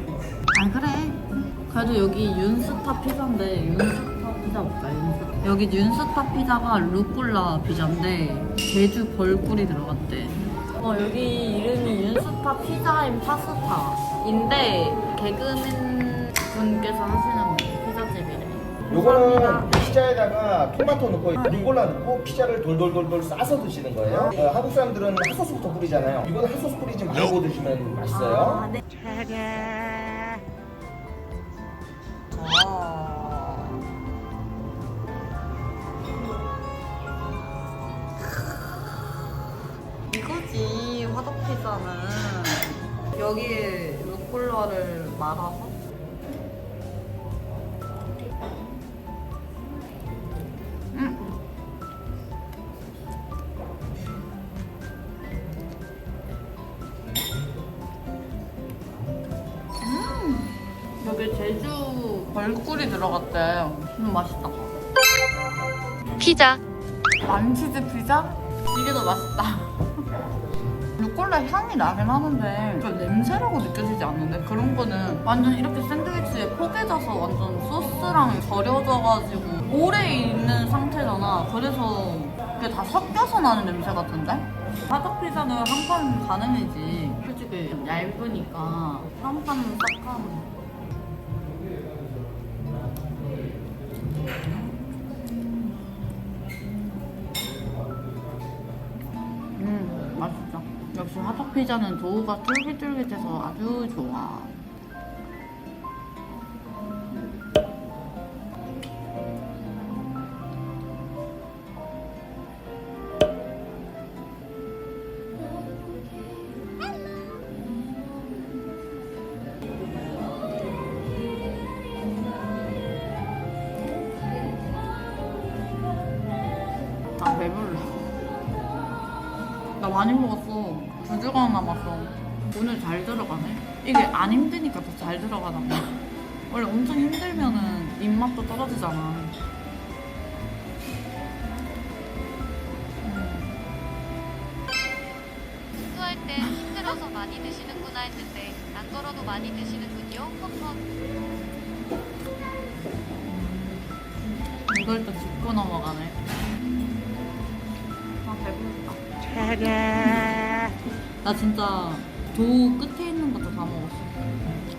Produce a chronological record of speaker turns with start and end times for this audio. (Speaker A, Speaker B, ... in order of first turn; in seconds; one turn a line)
Speaker A: 0.5-19.8
Speaker B: 18.9-28.7
Speaker A: 21.4-21.8
Speaker A: 24.1-24.3
Speaker A: 28.1-28.8
Speaker A: 32.3-33.8
Speaker A: 40.1-45.8
Speaker A: 50.9-51.3
Speaker A: 59.8-64.7
Speaker C: 66.2-66.6
Speaker A: 67.2-69.9
Speaker A: 71.0-90.5
Speaker A: 94.4-96.7
Speaker A: 99.5-104.6
Speaker A: 127.2-128.1
Speaker A: 129.8-139.3
Speaker A: 143.0-143.6
Speaker C: 145.8-150.8
Speaker A: 153.2-153.8
Speaker A: 154.7-156.2
Speaker A: 158.2-159.0
Speaker A: 159.7-160.4
Speaker A: 161.2-164.5